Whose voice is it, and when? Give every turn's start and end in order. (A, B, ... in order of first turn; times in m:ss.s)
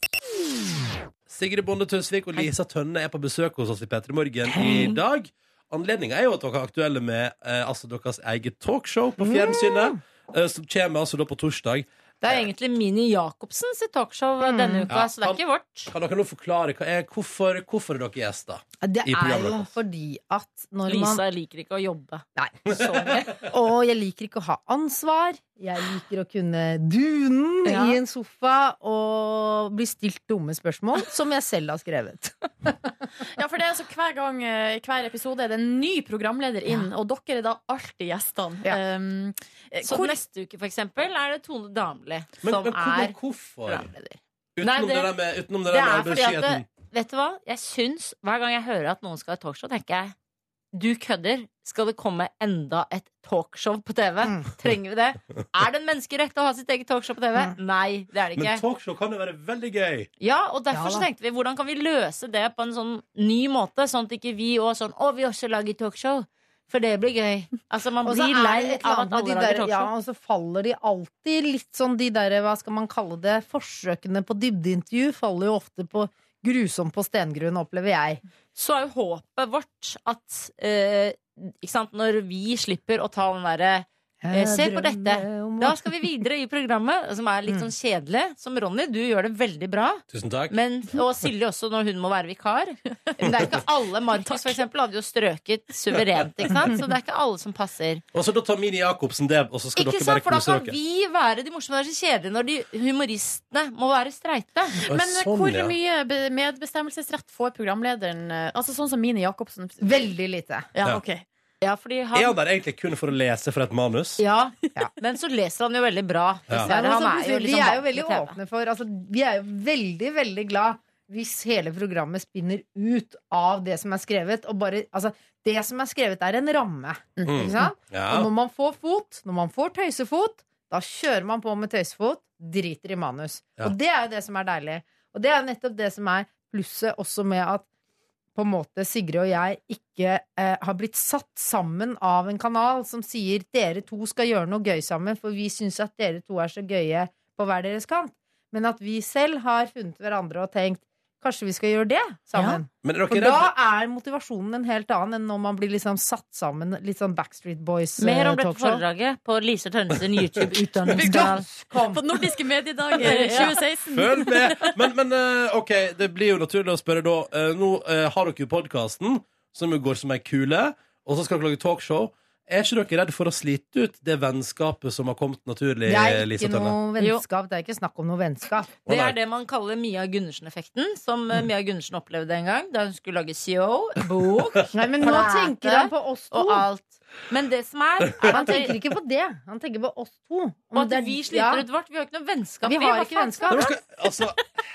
0:01.3-0:12.4 A
0:04.6-0:04.9 B
0:09.2-0:10.0 B
0:12.2-0:15.9 C
0:14.4-0:14.9 B
0:14.9-0:19.7 A
0:18.8-0:21.2 B
0:20.9-0:23.5 C
0:22.4-0:22.8 B
0:22.7-0:23.1 A
0:23.5-0:32.9 B
0:27.7-0:28.0 D
0:33.4-0:40.2 D
0:39.8-0:43.2 C
0:42.4-0:43.9 A
0:43.7-0:45.1 C
0:44.6-0:46.7 A
0:45.7-0:50.1 C
0:50.7-0:58.6 C
0:54.2-0:54.5 B
0:58.4-1:00.1 A
1:00.2-1:09.9 C
1:00.7-1:01.0 B
1:08.0-1:18.2 B
1:18.6-1:38.0 C
1:24.2-1:25.8 B
1:30.1-1:30.6 A
1:34.2-1:34.6 D
1:38.1-1:40.8 A
1:39.8-1:44.8 C
1:44.8-1:50.1 D
1:44.8-1:45.8 A
1:49.8-1:50.7 B
1:50.7-1:51.2 D
1:51.6-1:52.4 C
1:52.1-1:54.2 A
1:54.2-1:58.4 C
1:56.6-2:17.7 B
2:07.2-2:07.6 D
2:07.3-2:08.3 A
2:18.4-2:38.8 B
2:32.8-2:33.5 A
2:38.0-2:41.5 C
2:40.9-2:42.2 B
2:40.9-2:44.8 D
2:43.0-2:43.6 C
2:43.9-2:56.8 A
2:55.9-2:58.7 B
2:58.9-2:59.2 A
2:58.9-3:08.8 C
3:04.7-3:06.7 B
3:08.2-3:11.6 B
3:10.7-3:13.8 C
3:12.6-3:13.7 B
3:13.5-3:14.4 A